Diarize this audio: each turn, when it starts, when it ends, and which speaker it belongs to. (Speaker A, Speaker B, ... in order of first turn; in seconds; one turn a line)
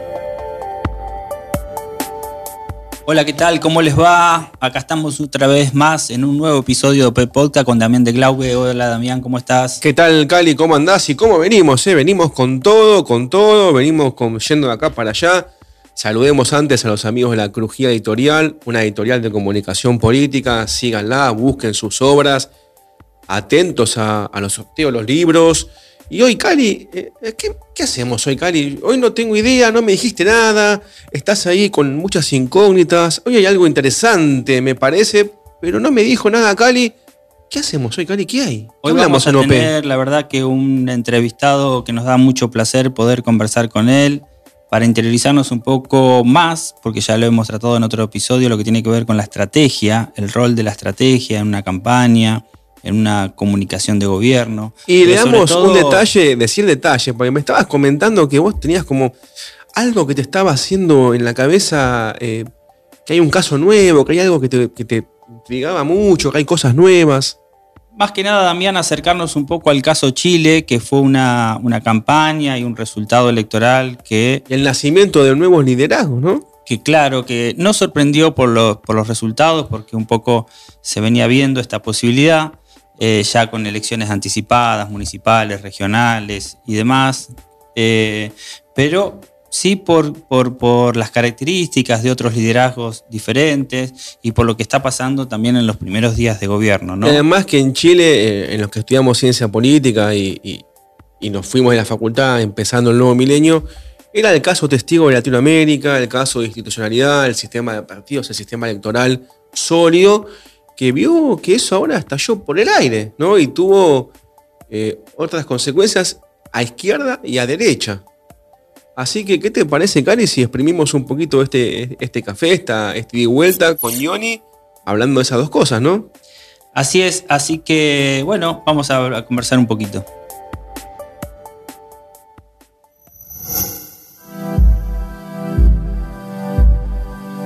Speaker A: 3.1-9.8
Speaker B: 9.8-22.5
Speaker B: 23.3-37.0
Speaker B: 37.5-39.7
Speaker A: 38.8-56.0
Speaker B: 54.9-59.1
Speaker B: 59.7-62.5
Speaker B: 63.1-67.4
Speaker A: 68.0-74.4
Speaker B: 74.5-76.5
Speaker A: 76.7-97.2
Speaker B: 97.0-100.7
Speaker B: 101.2-114.1
Speaker B: 114.7-118.0
Speaker B: 119.0-126.1
Speaker A: 126.7-130.1